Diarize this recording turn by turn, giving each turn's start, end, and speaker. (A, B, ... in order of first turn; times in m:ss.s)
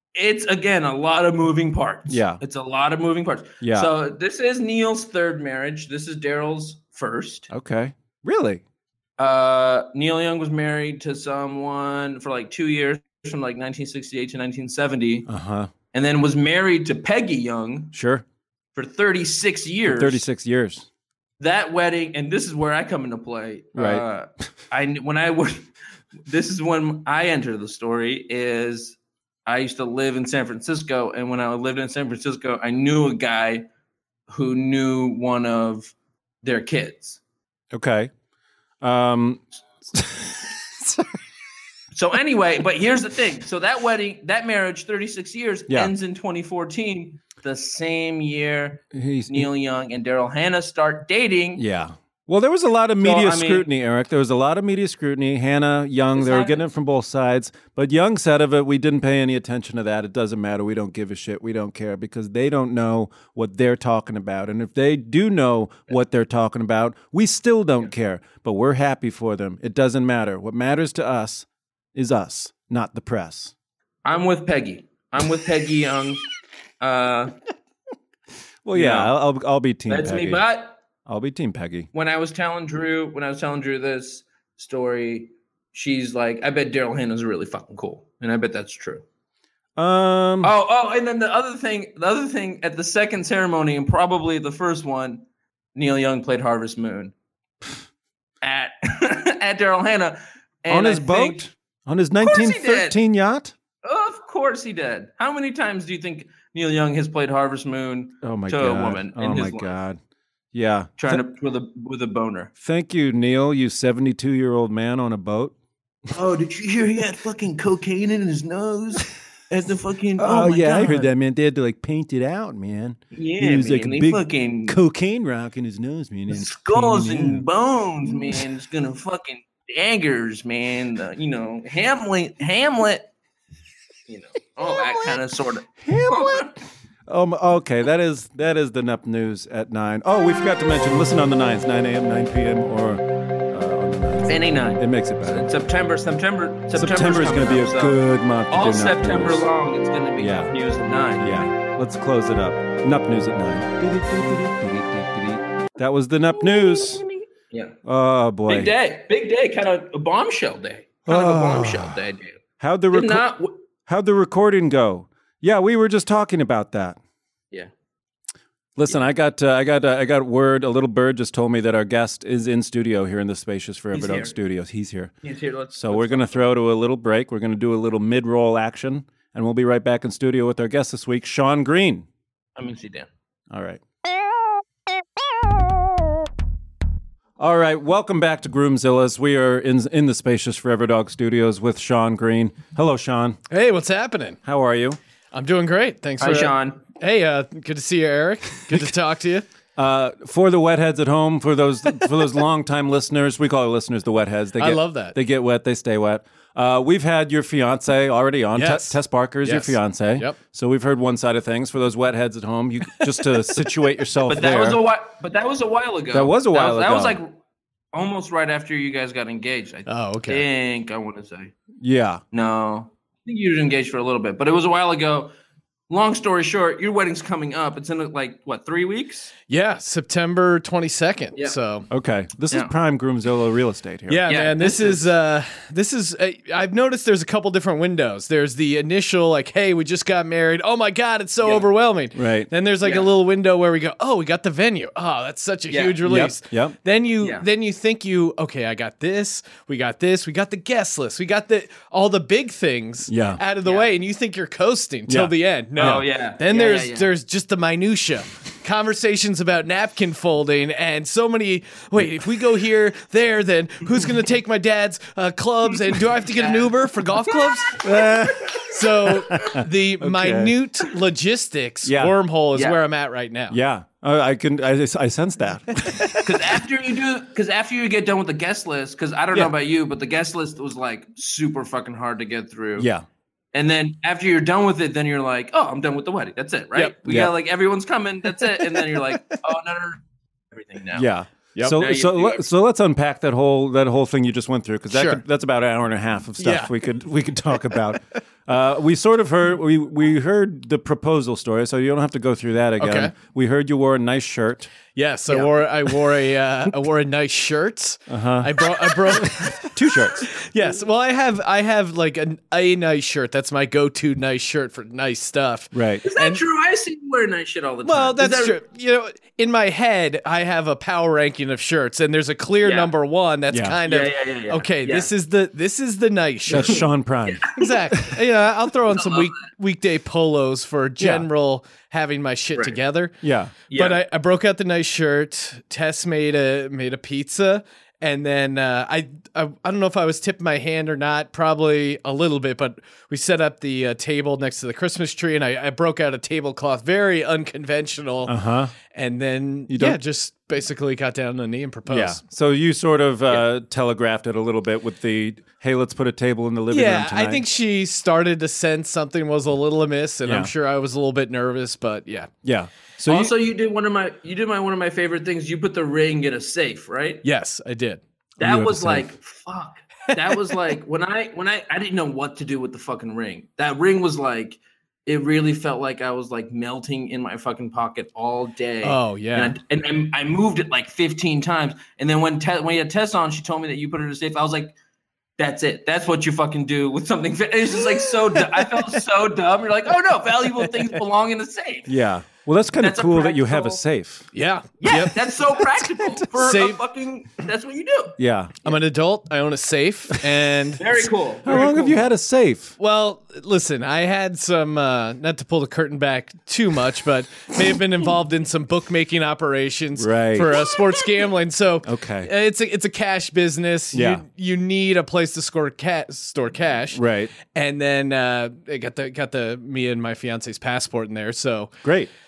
0:00.2-0:07.5 A
0:02.1-0:02.4 B
0:03.6-0:03.9 B
0:07.5-0:08.6 B
0:09.2-0:15.3 A
0:15.3-0:15.7 B
0:15.9-0:17.9 A
0:17.9-0:18.2 B
0:18.8-0:20.2 A
0:19.9-0:20.9 B
0:21.4-0:25.7 A
0:23.8-0:24.0 B
0:26.3-0:33.6 A
0:34.3-0:37.2 A
0:37.7-0:38.1 B
0:38.8-0:41.2 B
0:41.9-0:51.6 A
0:48.9-0:49.5 B
0:51.6-1:13.5 B
0:53.0-0:53.7 A
0:56.1-0:56.6 A
1:14.0-1:16.2 A
1:16.8-1:17.3 A
1:18.6-1:20.4 B
1:18.7-1:19.1 A
1:19.9-1:20.8 A
1:21.1-1:21.9 B
1:21.9-1:29.0 A
1:29.8-1:30.5 B
1:30.4-1:37.1 A
1:38.4-1:41.5 A
1:40.7-1:43.5 B
1:42.2-1:43.0 A
1:43.8-1:49.8 A
1:48.2-1:50.0 B
1:50.5-1:51.2 B
1:51.0-1:52.5 A
1:52.6-1:55.5 B
1:56.1-2:01.1 A
2:00.2-2:07.5 B
2:03.1-2:04.8 A
2:06.3-2:13.1 A
2:08.1-2:08.5 B
2:14.1-2:16.5 A
2:14.6-2:15.2 B
2:15.8-2:25.5 B
2:24.3-2:28.0 A
2:26.7-2:29.5 B
2:28.5-2:31.4 A
2:30.2-2:30.5 B
2:31.2-2:37.0 B
2:36.4-2:37.8 A
2:37.8-2:38.7 B
2:38.5-2:42.4 A
2:41.1-2:42.0 B
2:42.6-2:43.2 B
2:42.9-2:43.6 A
2:43.9-2:47.0 B
2:48.8-2:55.1 B
2:53.9-2:54.4 A
2:55.2-2:56.5 A
2:55.8-3:02.1 B
3:02.6-3:03.1 A
3:03.5-3:03.8 B
3:07.4-3:13.4 B
3:13.5-3:14.4 C
3:14.4-3:15.0 B
3:15.3-3:19.5 C
3:16.2-3:16.8 A
3:19.8-3:34.8 B
3:24.6-3:25.2 C
3:28.6-3:30.4 C
3:34.3-3:37.3 A
3:36.1-3:37.2 B
3:37.9-3:41.5 A
3:39.9-3:40.4 C
3:41.8-3:42.2 B
3:42.3-3:45.3 A
3:45.9-3:49.3 A
3:49.5-3:51.9 C
3:51.9-3:54.2 B
3:54.1-4:27.8 C
3:54.3-3:55.0 A
4:02.1-4:02.5 B
4:02.8-4:03.1 A
4:05.7-4:06.0 A
4:06.0-4:06.8 B
4:07.2-4:07.5 A
4:13.1-4:13.4 B
4:15.1-4:16.0 B
4:15.8-4:17.1 A
4:26.4-4:27.8 A
4:27.8-4:28.6 B
4:28.6-4:33.6 C
4:29.3-4:30.6 B
4:31.8-4:32.2 B
4:33.5-4:36.2 B
4:36.2-4:42.9 A
4:42.8-4:43.0 B
4:43.5-4:51.1 A
4:47.1-4:47.3 B
4:48.4-4:49.4 C
4:50.9-5:04.7 B
4:51.8-4:52.5 A
4:54.9-4:55.2 C
4:56.4-4:56.7 C
5:02.8-5:03.1 C
5:05.0-5:16.4 C
5:08.1-5:10.3 B
5:15.7-5:16.0 B
5:16.0-5:18.6 A
5:17.8-5:26.8 C
5:22.6-5:22.9 A
5:23.5-5:23.8 B
5:23.9-5:25.1 A
5:26.5-5:28.1 B
5:26.5-5:27.7 A
5:27.6-5:33.1 C
5:28.9-5:29.4 A
5:31.0-5:31.3 B
5:33.2-5:33.5 B
5:33.7-5:34.0 A
5:33.7-5:48.4 C
5:48.3-5:48.7 B
5:48.9-5:52.2 C
5:49.7-5:50.0 B
5:51.9-5:57.4 B
5:56.7-6:02.3 C
6:00.2-6:00.5 B
6:02.4-6:03.4 B
6:03.1-6:07.2 A
6:07.2-6:08.0 C
6:08.4-6:24.8 A
6:08.4-6:09.1 B
6:18.8-6:19.6 C
6:25.4-6:31.9 A
6:28.3-6:28.7 C
6:31.9-6:34.3 B
6:32.8-6:33.8 A
6:34.3-6:35.2 C
6:34.8-6:38.2 A
6:36.3-6:36.8 C
6:38.2-6:38.5 B
6:38.6-6:40.8 C
6:40.8-6:42.0 A
6:41.5-6:42.7 B
6:42.8-7:01.8 C
6:50.0-6:50.6 B
6:51.8-6:52.3 B
6:53.9-6:54.2 B
6:56.9-6:57.3 B
7:01.8-7:02.1 B